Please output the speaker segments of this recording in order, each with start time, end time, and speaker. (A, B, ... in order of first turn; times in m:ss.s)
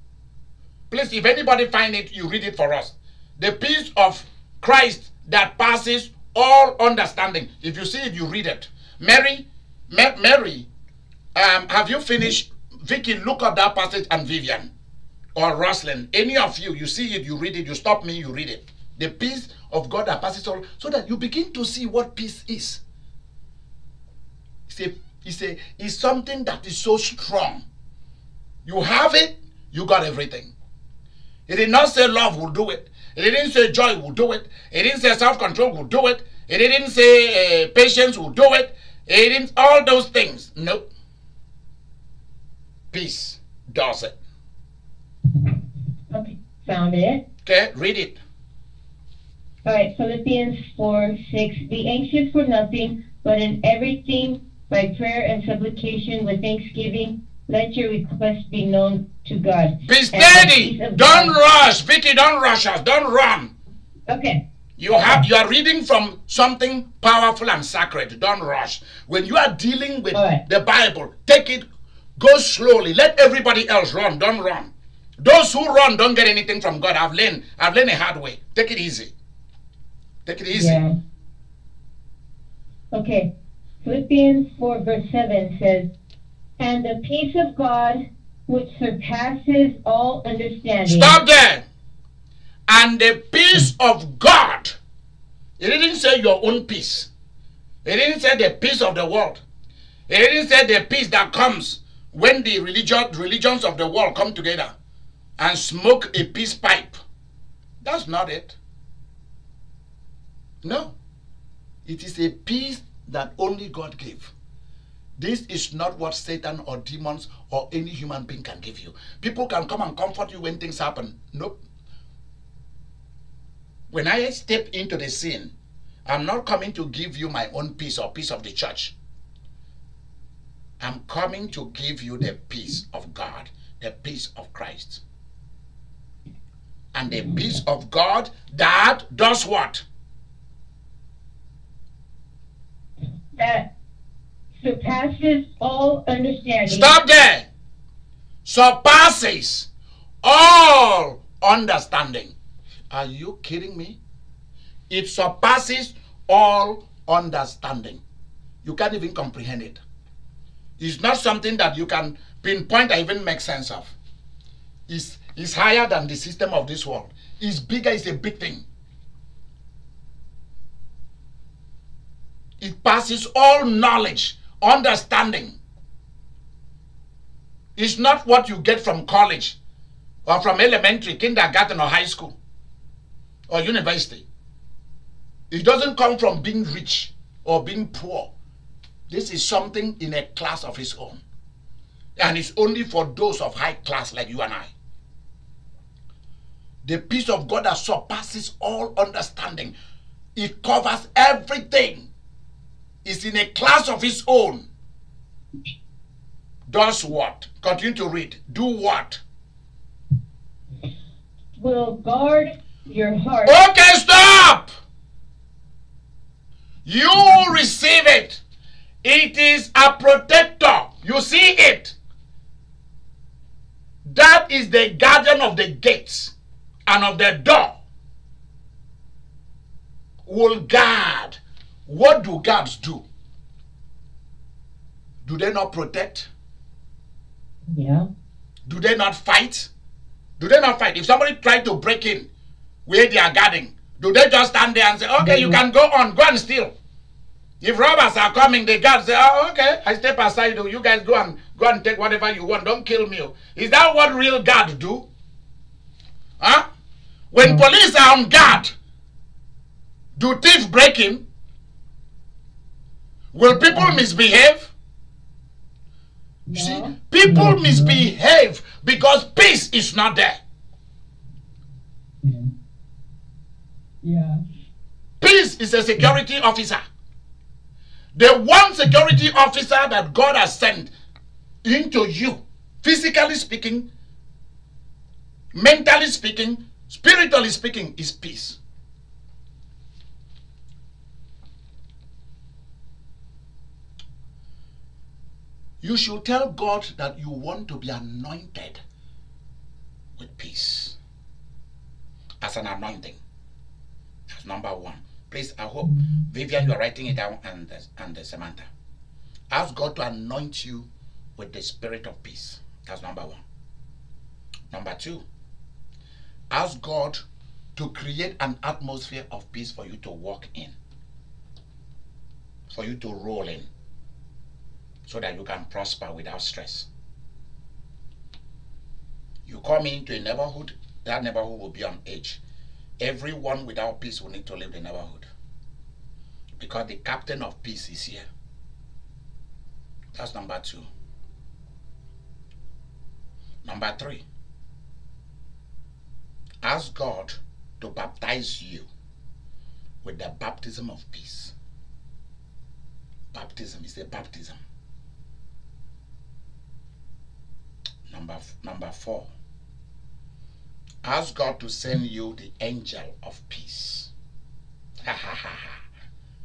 0:00.9-0:10.7 A
0:11.3-0:14.7 A
0:15.3-0:22.8 A
0:24.7-0:27.6 A
0:28.6-0:30.5 A
0:31.5-0:40.8 A
0:42.9-0:44.1 A
0:46.1-0:47.2 B
0:47.4-0:48.2 A
0:49.6-1:01.4 B
0:59.8-1:03.5 A
1:04.1-1:04.4 B
1:04.8-1:11.6 A
1:10.1-1:10.4 B
1:12.2-1:19.1 A
1:20.2-1:20.8 A
1:20.5-1:21.0 B
1:22.9-1:23.3 B
1:23.8-1:25.9 B
1:26.6-1:31.2 B
1:30.8-1:31.6 A
1:32.7-1:34.8 A
1:35.6-1:37.1 A
1:37.8-1:39.4 A
1:40.1-1:44.7 A
1:45.4-1:47.0 A
1:47.8-1:48.6 A
1:50.6-1:50.9 A
1:51.8-1:54.3 A
1:55.2-2:01.6 A
2:03.9-2:05.5 A
2:06.0-2:08.9 A
2:10.8-2:15.0 A
2:16.9-2:19.8 A
2:23.4-2:23.7 B
2:24.6-2:26.9 B
2:26.6-2:27.4 A
2:28.4-2:29.7 A
2:30.2-2:32.3 A
2:32.9-2:34.0 A
2:34.9-2:38.0 A
2:38.6-2:39.8 A
2:40.8-2:43.9 A
2:44.9-2:48.6 A
2:52.6-2:55.6 A
2:57.8-2:59.6 A
3:00.2-3:02.4 A
3:03.5-3:04.2 A
3:05.5-3:08.3 A
3:09.1-3:11.2 A
3:12.2-3:14.7 A
3:16.8-3:19.7 A
3:20.4-3:22.1 A
3:23.0-3:24.6 A
3:26.7-3:29.2 A
3:31.6-3:33.6 B
3:33.4-3:34.7 A
3:36.8-3:38.4 A
3:39.0-3:41.9 A
3:44.0-3:46.3 A
3:46.8-3:47.8 A
3:50.2-3:53.0 A
3:55.2-3:56.3 A
3:57.7-3:58.1 B
3:58.7-3:59.7 A
4:00.4-4:02.3 A
4:02.8-4:06.7 A
4:05.2-4:05.6 B
4:07.6-4:15.0 A
4:16.4-4:16.6 A
4:17.3-4:18.7 A
4:20.2-4:21.2 A
4:23.3-4:24.7 A
4:23.5-4:24.0 C
4:26.5-4:28.1 C
4:26.5-4:30.4 A
4:32.2-4:32.5 C
4:34.0-4:34.4 C
4:35.2-4:36.8 A
4:38.1-4:40.9 A
4:41.6-4:43.9 A
4:45.5-4:48.6 A
4:55.8-4:58.8 A
5:00.2-5:01.0 A
5:02.4-5:03.2 A
5:04.3-5:08.7 A
5:09.5-5:13.4 A
5:14.7-5:15.2 A
5:16.5-5:17.2 A
5:17.8-5:20.7 A
5:22.7-5:23.7 A
5:25.0-5:26.9 A
5:29.4-5:32.4 A
5:33.0-5:35.3 A
5:36.6-5:38.2 A
5:40.1-5:40.9 A
5:43.6-5:44.2 A
5:46.6-5:48.9 A
5:50.0-5:51.5 A
5:53.3-5:54.6 A
5:58.1-5:59.3 A
6:01.0-6:04.1 A
6:05.0-6:05.8 A